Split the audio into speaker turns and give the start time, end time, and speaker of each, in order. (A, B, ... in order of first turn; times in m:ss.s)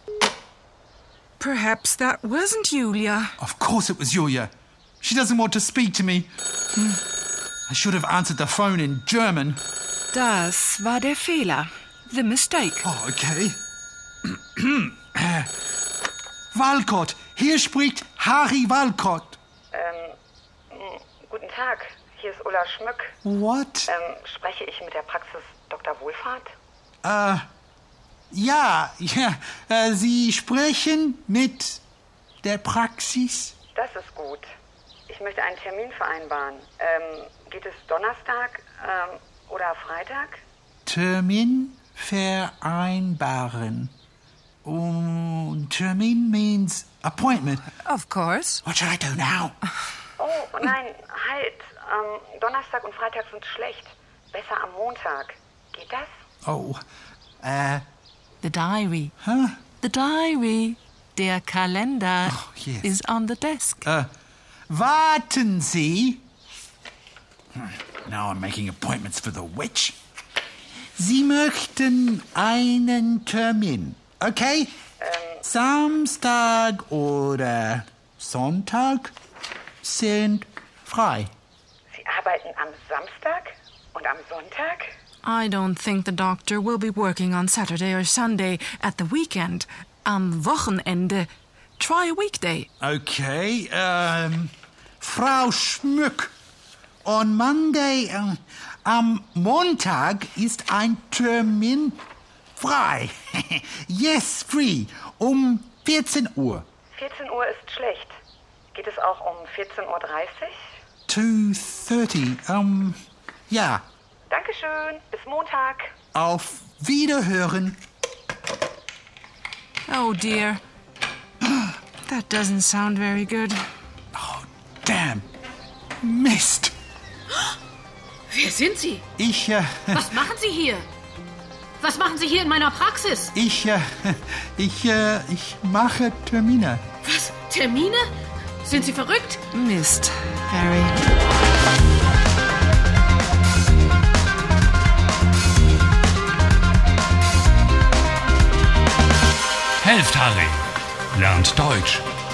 0:01.4-0:03.4 A
0:03.4-0:07.0 B
0:07.7-0:09.6 B
0:10.1-0:12.9 A
0:12.8-0:13.6 B
0:14.6-0:15.5 B
0:16.5-0:19.4 B
0:19.7-0:20.2 C
0:20.7-0:23.1 C
0:23.2-0:23.9 B
0:23.9-0:26.5 C
0:27.0-0:27.4 B
0:28.3-0:31.8 B
0:32.4-0:33.6 B
0:33.8-0:34.5 C
0:35.1-0:40.4 C
0:40.9-0:43.9 B
0:44.6-0:47.7 B
0:47.8-0:48.6 A
0:48.6-0:49.6 B
0:50.2-0:56.1 C
0:56.4-0:56.8 B
0:57.4-0:57.8 B
0:58.4-0:59.1 A
0:59.2-0:59.6 B
0:59.8-1:03.9 A
1:02.3-1:02.9 B
1:03.8-1:04.1 B
1:04.7-1:06.2 B
1:07.6-1:10.0 B
1:11.0-1:14.7 B
1:15.0-1:15.4 C
1:15.4-1:19.1 B
1:19.8-1:21.3 B
1:21.9-1:24.9 C
1:25.2-1:32.7 A
1:32.8-1:36.3 B
1:37.0-1:42.0 B
1:42.6-1:46.7 B
1:46.9-1:48.2 C
1:48.7-1:50.7 C
1:51.1-1:53.8 B
1:54.3-1:55.9 C
1:56.1-1:57.8 B
1:59.9-2:00.6 A
2:02.0-2:03.6 A
2:04.1-2:05.3 B
2:06.0-2:06.7 B
2:08.3-2:09.0 D
2:09.2-2:10.2 B
2:09.9-2:10.9 D
2:11.8-2:13.3 D
2:13.3-2:16.8 B
2:17.0-2:18.1 D
2:18.6-2:19.4 D
2:19.5-2:21.0 A
2:29.8-2:32.1 E